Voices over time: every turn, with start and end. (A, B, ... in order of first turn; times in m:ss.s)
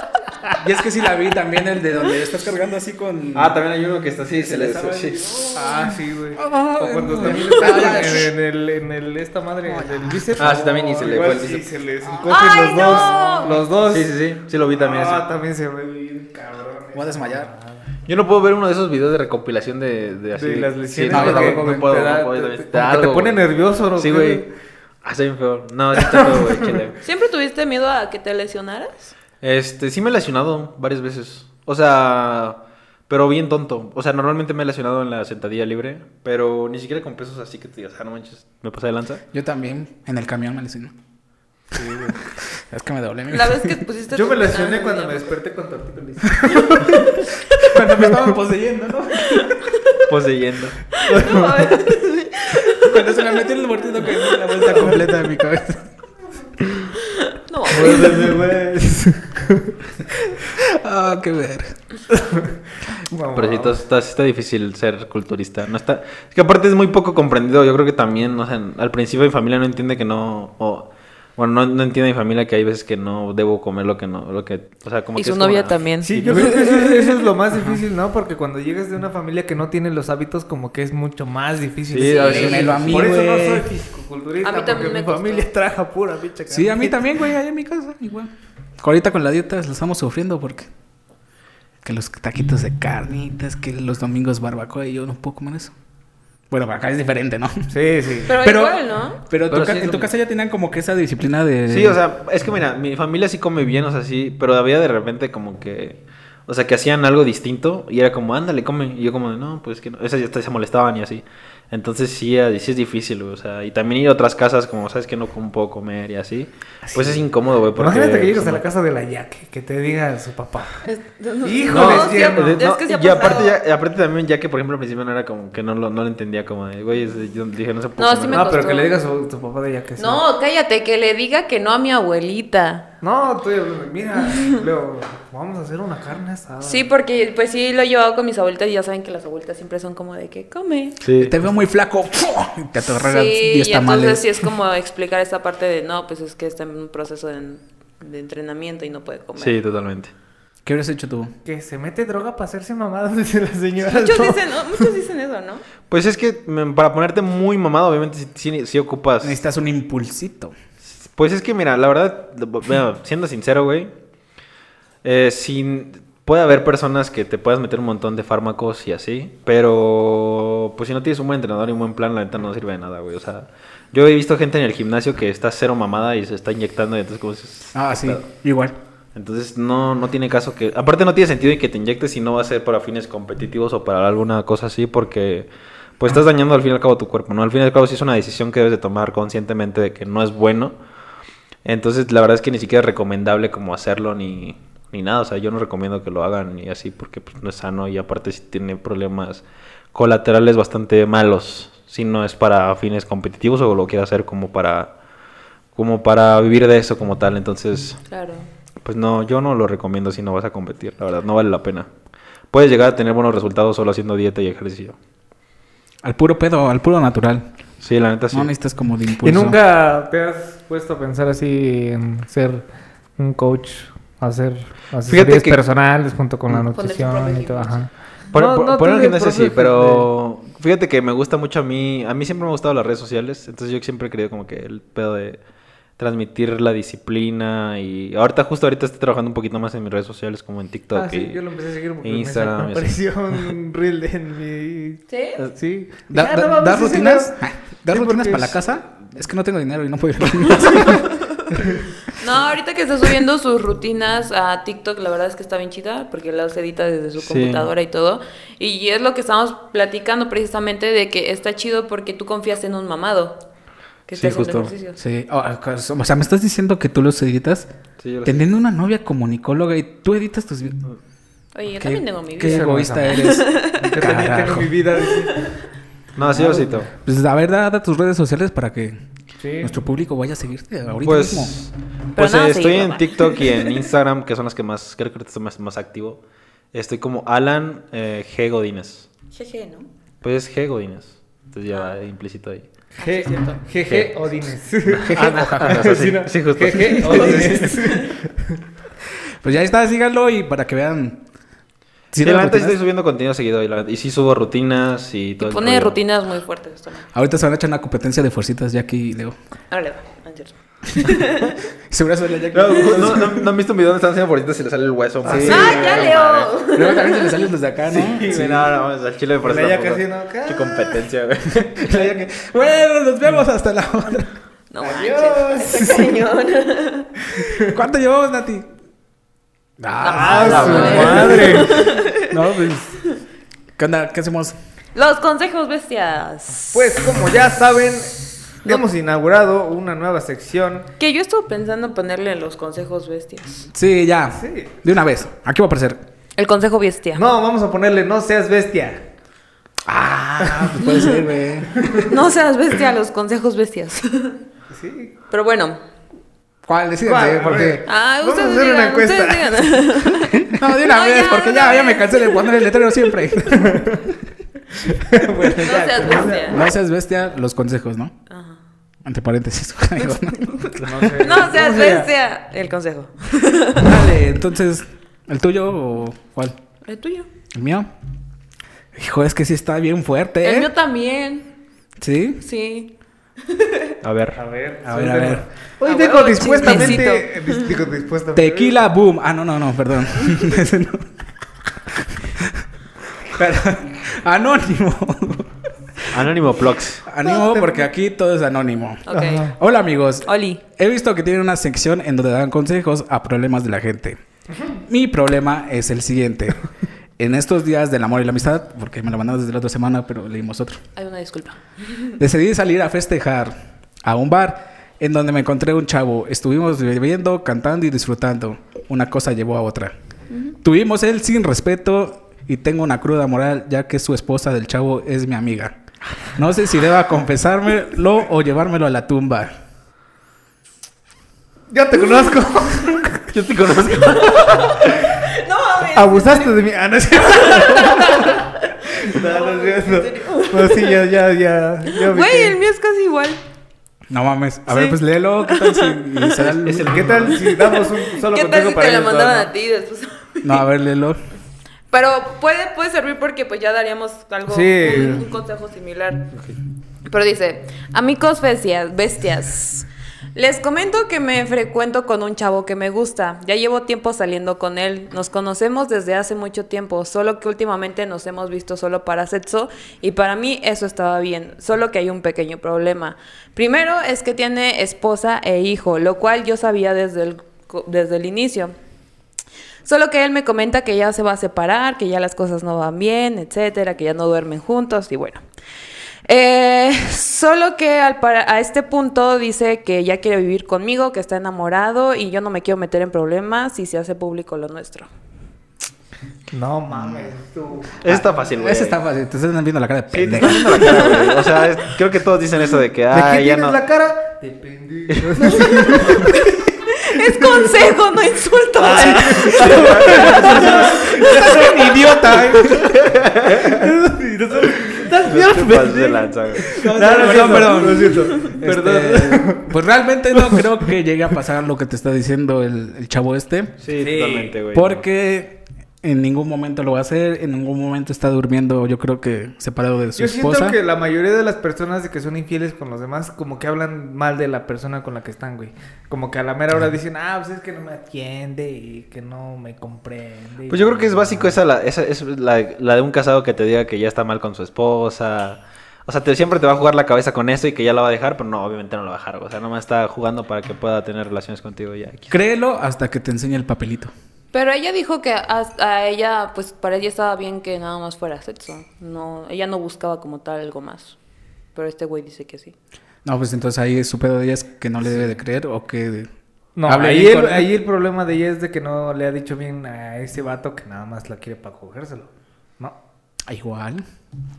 0:00.6-0:03.6 A
0:03.3-0:05.4 B
0:04.4-0:08.3 A
0:05.5-0:14.1 C
0:09.7-0:10.5 A
0:10.4-0:11.6 B
0:12.2-0:13.6 D
0:13.8-0:15.2 B
0:14.6-0:17.8 C
0:16.9-0:17.5 A
0:18.0-0:23.4 B
0:20.3-0:24.5 C
0:21.1-0:21.9 A
0:24.0-0:24.4 B
0:25.0-0:27.0 B
0:26.0-0:26.8 C
0:27.0-0:29.1 D
0:29.4-0:39.2 B
0:39.3-0:40.9 A
0:41.7-0:43.8 A
0:43.3-0:45.2 D
0:44.1-0:47.2 C
0:46.5-0:49.7 A
0:47.8-0:48.3 C
0:49.3-0:50.0 D
0:50.1-0:50.9 B
0:50.9-0:53.4 D
0:51.0-0:51.8 C
0:52.7-0:55.9 A
0:54.1-0:54.6 D
0:54.7-0:54.9 C
0:57.1-0:58.3 D
0:57.7-0:59.8 C
1:00.4-1:01.8 A
1:02.1-1:02.5 C
1:03.1-1:03.8 C
1:03.3-1:16.6 B
1:15.2-1:17.1 D
1:16.0-1:27.0 C
1:21.9-1:23.0 B
1:22.0-1:22.8 D
1:22.3-1:23.7 A
1:24.4-1:25.5 D
1:26.5-1:30.7 A
1:31.8-1:35.7 A
1:36.5-1:37.7 A
1:37.7-1:38.4 C
1:38.2-1:39.2 D
1:38.3-1:42.0 A
1:39.5-1:40.1 B
1:41.7-1:58.6 B
1:56.8-2:00.8 C
2:00.8-2:03.6 D
2:01.4-2:02.6 C
2:01.7-2:08.5 B
2:08.0-2:09.0 D
2:08.3-2:10.2 C
2:10.0-2:12.8 D
2:13.0-2:16.8 C
2:16.6-2:21.0 D
2:21.0-2:21.4 B
2:21.2-2:24.5 A
2:23.0-2:29.6 D
2:29.4-2:30.1 B
2:30.6-2:31.3 A
2:31.4-2:34.8 C
2:33.8-2:35.6 D
2:35.9-2:39.4 B
2:39.2-2:40.5 A
2:40.8-2:43.9 B
2:45.0-2:58.3 B
2:57.7-2:58.7 A
2:59.1-3:10.8 B
3:11.6-3:24.9 B
3:25.7-3:28.0 B
3:28.1-3:28.5 D
3:28.8-3:31.9 B
3:32.5-3:35.0 B
3:36.0-3:37.4 A
3:37.8-3:38.5 B
3:38.3-3:39.6 A
3:39.2-3:50.1 C
3:45.1-3:45.6 B
3:46.7-3:47.9 D
3:48.3-3:55.4 B
3:56.0-4:01.4 B
4:00.9-4:08.6 C
4:02.0-4:02.9 B
4:05.1-4:05.4 D
4:06.1-4:11.6 A
4:10.8-4:11.4 D
4:12.2-4:23.4 D
4:17.2-4:17.7 B
4:24.1-4:25.0 D
4:24.2-4:24.7 B
4:25.0-4:27.7 A
4:28.0-4:28.4 B
4:28.2-4:30.8 A
4:31.5-4:34.0 D
4:31.8-4:34.7 A
4:32.4-4:33.2 C
4:33.8-4:35.6 C
4:35.2-4:35.6 D
4:36.2-4:36.9 B
4:36.2-4:36.8 C
4:36.3-4:39.0 A
4:39.4-4:39.7 C
4:39.6-4:41.6 A
4:41.0-4:46.2 B
4:42.2-4:43.8 D
4:46.7-4:49.1 B
4:49.3-4:49.9 D
4:50.2-4:52.7 B
4:53.0-4:53.6 D
4:53.0-4:58.6 C
4:53.9-4:54.1 B
4:54.9-4:57.7 B
4:55.0-4:56.1 A
4:57.0-4:57.8 A
4:57.7-4:58.1 D
4:59.4-5:01.2 A
5:02.1-5:02.8 A
5:02.2-5:06.0 B
5:05.4-5:07.1 D
5:07.1-5:09.3 A
5:09.7-5:11.6 D
5:11.9-5:13.5 A
5:12.5-5:16.5 B
5:15.2-5:15.9 C
5:15.2-5:18.7 A
5:15.5-5:17.4 D
5:17.9-5:22.3 B
5:19.4-5:21.0 C
5:21.6-5:24.3 A
5:24.7-5:27.1 D
5:24.8-5:26.1 C
5:27.4-5:27.7 C
5:27.6-5:28.7 A
5:29.8-5:33.0 A
5:30.0-5:32.4 D
5:30.0-5:31.9 C
5:30.4-5:31.7 B
5:33.8-5:34.6 A
5:34.9-5:37.0 D
5:36.7-5:40.9 C
5:41.0-5:43.7 D
5:43.7-5:46.0 A
5:44.4-5:44.7 C
5:46.4-5:47.2 D
5:47.2-5:49.0 C
5:49.8-5:52.0 A
5:50.4-5:51.1 C
5:50.8-5:51.1 D
5:51.7-5:52.1 C
5:52.0-5:54.4 D
5:54.7-5:55.1 C
5:55.3-5:55.8 D
5:56.6-5:57.8 A
5:57.0-6:00.0 C
5:57.8-6:02.7 D
6:00.4-6:04.1 A
6:03.6-6:04.0 C
6:05.0-6:06.6 C
6:05.6-6:06.6 D
6:06.4-6:08.1 A
6:08.3-6:08.6 D
6:09.0-6:11.1 A
6:10.0-6:13.9 D
6:10.8-6:12.1 C
6:13.8-6:16.6 A
6:16.8-6:17.3 D
6:17.5-6:17.9 A
6:18.9-6:20.7 A
6:20.4-6:21.5 D
6:22.0-6:22.4 A
6:22.4-6:24.0 D
6:24.0-6:24.4 B
6:24.3-6:28.8 C
6:24.8-6:25.4 A
6:25.8-6:27.7 D
6:26.6-6:27.0 A
6:28.3-6:31.1 A
6:31.9-6:32.7 A
6:33.2-6:36.3 A
6:36.1-6:37.0 B
6:37.0-6:44.2 A
6:37.3-6:37.8 C
6:39.1-6:39.5 D
6:39.1-6:39.5 C
6:40.2-6:40.6 D
6:44.8-6:46.6 A
6:47.2-6:50.8 A
6:51.0-6:52.2 D
6:52.2-6:59.9 A
7:00.6-7:05.8 A
7:06.3-7:09.5 A
7:11.7-7:13.3 C
7:13.3-7:14.9 B
7:14.2-7:16.6 D
7:15.8-7:22.6 C
7:17.2-7:20.9 D
7:21.9-7:23.4 D
7:24.1-7:27.0 A
7:24.7-7:26.5 D
7:26.6-7:27.5 B
7:26.8-7:29.5 C
7:27.3-7:30.6 D
7:30.4-7:31.2 A
7:31.9-7:36.3 D
7:34.5-7:35.2 C
7:37.1-7:58.7 D
7:59.8-8:05.4 D
8:06.2-8:15.1 D
8:16.5-8:18.0 C
8:18.0-8:19.0 B
8:18.0-8:21.0 A
8:20.1-8:23.8 B
8:20.7-8:21.5 D
8:23.1-8:26.5 C
8:25.1-8:25.6 B
8:25.4-8:32.2 D
8:27.3-8:27.7 C
8:28.8-8:39.8 C
8:29.0-8:31.0 B
8:32.6-8:33.9 B
8:35.2-8:37.8 B
8:36.6-8:43.7 A
8:40.3-8:40.7 C
8:43.8-8:45.0 B
8:44.0-8:44.6 C
8:44.7-8:50.8 A
8:50.2-9:01.6 C
9:00.7-9:12.4 B
9:12.3-9:14.1 A
9:14.5-9:21.2 D
9:21.7-9:22.7 D
9:23.2-9:26.3 A
9:26.8-9:33.0 C
9:26.8-9:27.7 A
9:33.5-9:34.0 A